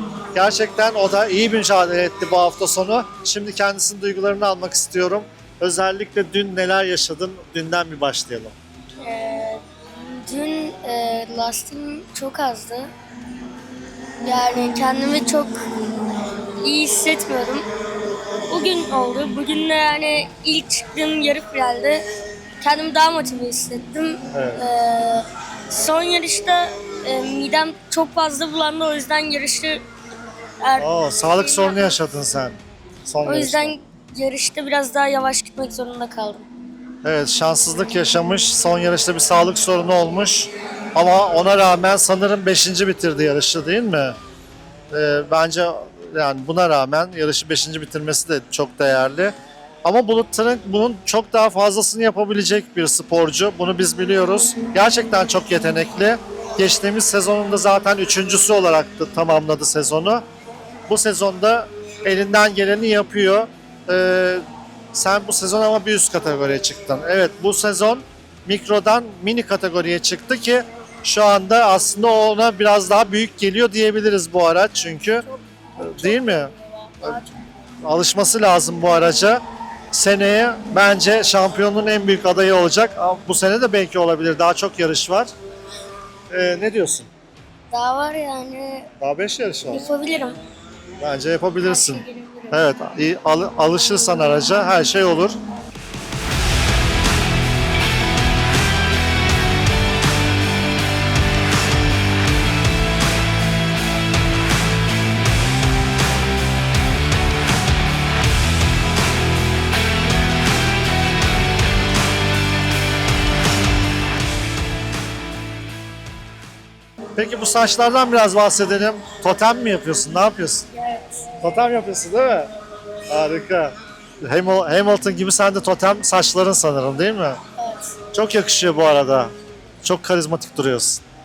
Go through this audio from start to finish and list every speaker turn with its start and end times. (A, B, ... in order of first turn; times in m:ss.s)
0:00.3-0:08.6 A
0:09.0-0:12.9 B
0:14.2-0:15.6 B
0:16.6-0:17.7 B
0:18.5-0:22.0 B
0:22.6-0:29.8 B
0:24.3-0:24.6 A
0:30.6-0:32.0 B
0:30.8-0:33.7 A
0:33.2-0:36.5 B
0:37.0-0:44.2 A
0:44.9-1:00.2 A
1:00.9-1:15.2 A
1:15.2-1:17.4 B
1:15.8-1:16.5 A
1:17.8-1:19.4 A
1:19.9-1:25.3 A
1:26.3-1:27.1 A
1:27.7-1:28.9 B
1:29.0-1:29.9 A
1:29.7-1:30.4 B
1:31.0-1:35.4 A
1:31.6-1:32.6 B
1:57.2-2:00.7 A
2:00.7-2:01.4 B
2:01.4-2:02.5 A
2:03.1-2:07.4 A
2:07.6-2:08.0 B
2:08.1-2:09.3 A
2:09.8-2:11.0 A